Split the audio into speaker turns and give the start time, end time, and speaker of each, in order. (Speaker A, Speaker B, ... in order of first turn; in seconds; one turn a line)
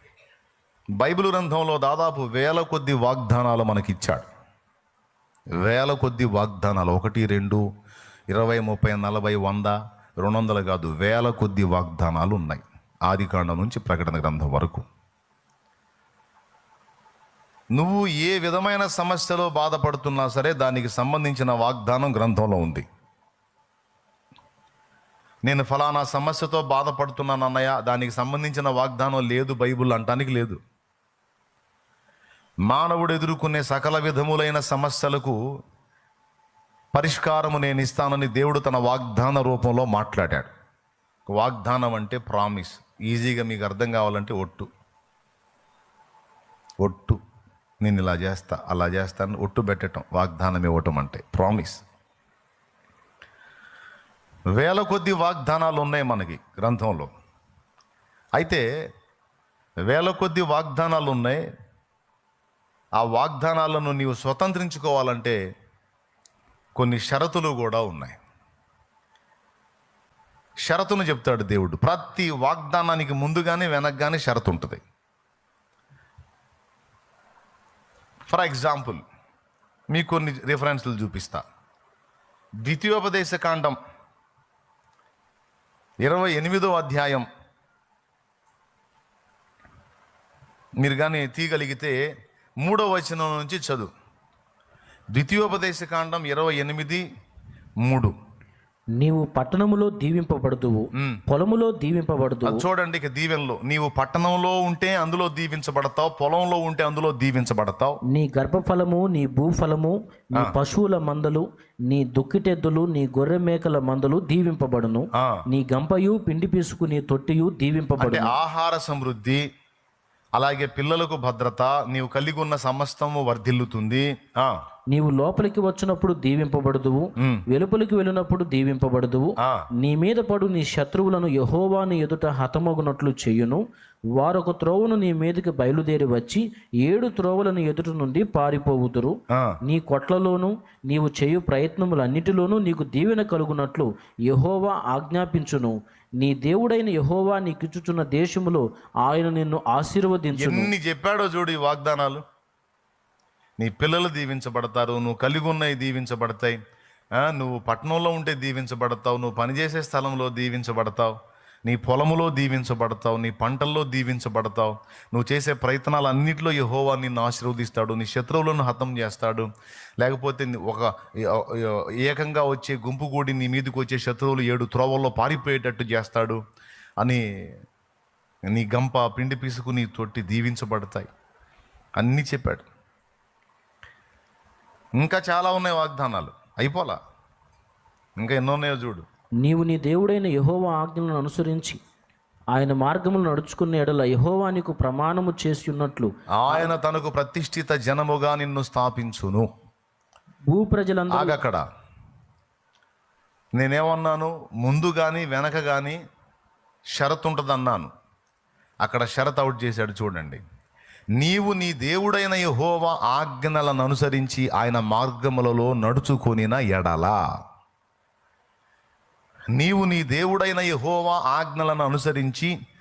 Speaker A: 1.0-4.3
Speaker A: 5.6-7.6
Speaker A: 8.3-14.9
Speaker A: 17.8-22.9
Speaker A: 25.4-30.6
Speaker A: 32.7-35.4
Speaker A: 36.9-40.5
Speaker A: 41.3-44.7
Speaker A: 46.8-47.2
Speaker A: 47.8-51.8
Speaker A: 54.6-57.1
Speaker A: 58.4-58.6
Speaker A: 59.9-61.4
Speaker A: 63.0-65.4
Speaker A: 66.8-68.2
Speaker A: 70.7-74.8
Speaker A: 78.3-79.0
Speaker A: 79.9-81.4
Speaker A: 82.7-83.8
Speaker A: 86.0-87.3
Speaker A: 90.8-92.0
Speaker A: 92.6-93.9
Speaker A: 95.2-97.0
Speaker A: 97.8-98.1
Speaker B: 99.0-102.6
Speaker A: 101.0-101.2
Speaker A: 102.5-108.0
Speaker B: 108.1-118.3
Speaker A: 118.0-119.4
Speaker A: 120.3-124.6
Speaker B: 124.9-133.6
Speaker B: 134.2-150.7
Speaker A: 150.4-152.2
Speaker A: 153.6-156.6
Speaker A: 157.2-161.1
Speaker A: 161.7-169.5
Speaker A: 170.0-176.4
Speaker A: 178.5-181.1
Speaker A: 182.0-182.7
Speaker A: 185.0-187.0
Speaker A: 188.2-189.1
Speaker B: 189.4-191.8
Speaker B: 192.5-196.7
Speaker A: 196.4-199.5
Speaker B: 200.5-201.4
Speaker A: 201.1-201.6
Speaker A: 203.6-206.0
Speaker A: 207.0-207.9
Speaker A: 208.8-210.4
Speaker A: 211.2-217.2
Speaker A: 219.6-222.5